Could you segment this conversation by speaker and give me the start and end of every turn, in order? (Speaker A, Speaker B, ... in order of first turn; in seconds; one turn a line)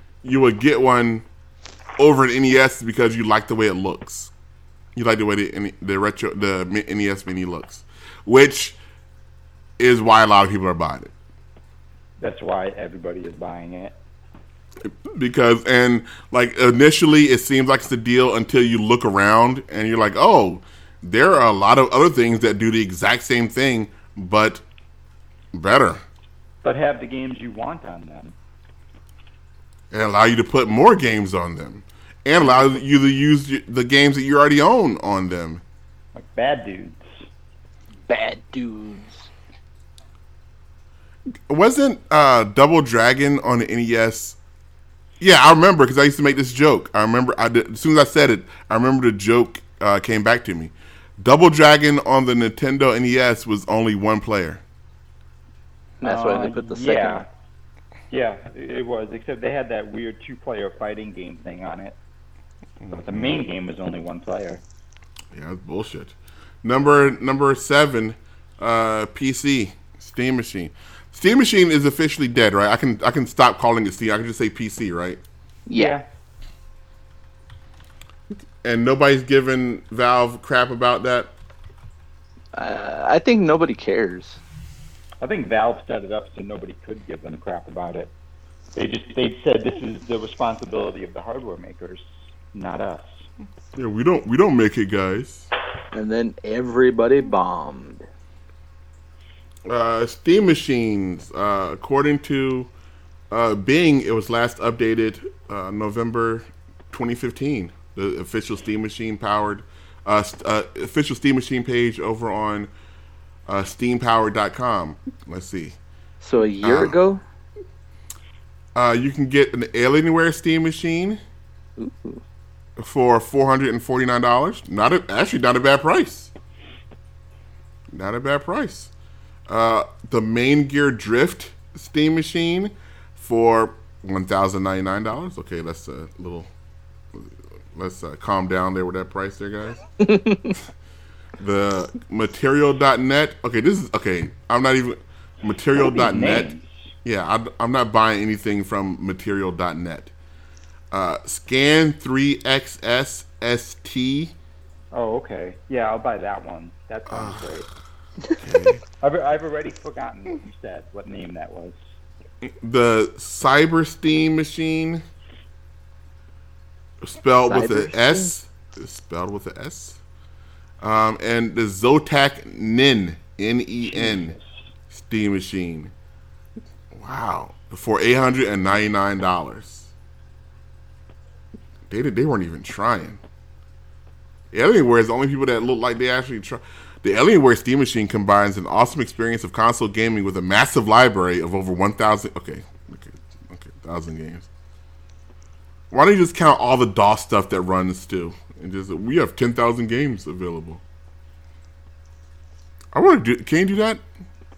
Speaker A: 0.2-1.2
Speaker A: 2.0-4.3
Speaker A: 4.9-8.8
Speaker A: 9.8-11.1
Speaker B: 12.2-13.9
Speaker A: 14.8-24.6
Speaker A: 25.5-26.0
Speaker B: 26.6-28.3
Speaker A: 29.9-35.6
Speaker B: 36.1-37.2
Speaker C: 38.1-39.3
Speaker A: 41.5-44.4
Speaker A: 45.2-54.6
Speaker C: 56.0-57.2
Speaker B: 56.0-57.3
Speaker B: 58.1-62.0
Speaker A: 62.8-63.3
Speaker B: 62.9-64.6
Speaker A: 65.3-75.2
Speaker C: 75.7-76.0
Speaker B: 75.7-76.0
Speaker A: 78.6-81.3
Speaker C: 82.5-84.4
Speaker B: 85.2-88.1
Speaker B: 88.8-93.3
Speaker A: 93.8-95.5
Speaker C: 95.9-98.0
Speaker A: 99.7-102.7
Speaker A: 103.3-112.7
Speaker A: 113.5-115.8
Speaker C: 116.2-117.2
Speaker A: 116.6-117.0
Speaker A: 118.7-121.2
Speaker C: 121.8-122.2
Speaker A: 122.8-126.3
Speaker A: 127.9-128.9
Speaker A: 129.5-136.5
Speaker A: 137.1-139.8
Speaker C: 140.0-140.5
Speaker A: 141.4-146.5
Speaker B: 145.7-146.9
Speaker A: 147.0-150.1
Speaker A: 150.9-154.3
Speaker B: 154.9-157.7
Speaker A: 157.1-157.5
Speaker A: 158.3-158.8
Speaker B: 159.0-161.8
Speaker A: 162.4-165.0
Speaker A: 167.0-170.0
Speaker C: 167.5-168.3
Speaker A: 170.8-174.3
Speaker B: 173.8-174.4
Speaker A: 174.9-175.9
Speaker A: 176.9-179.9
Speaker A: 181.9-183.2
Speaker A: 184.5-194.5
Speaker A: 195.9-200.8
Speaker A: 202.9-204.0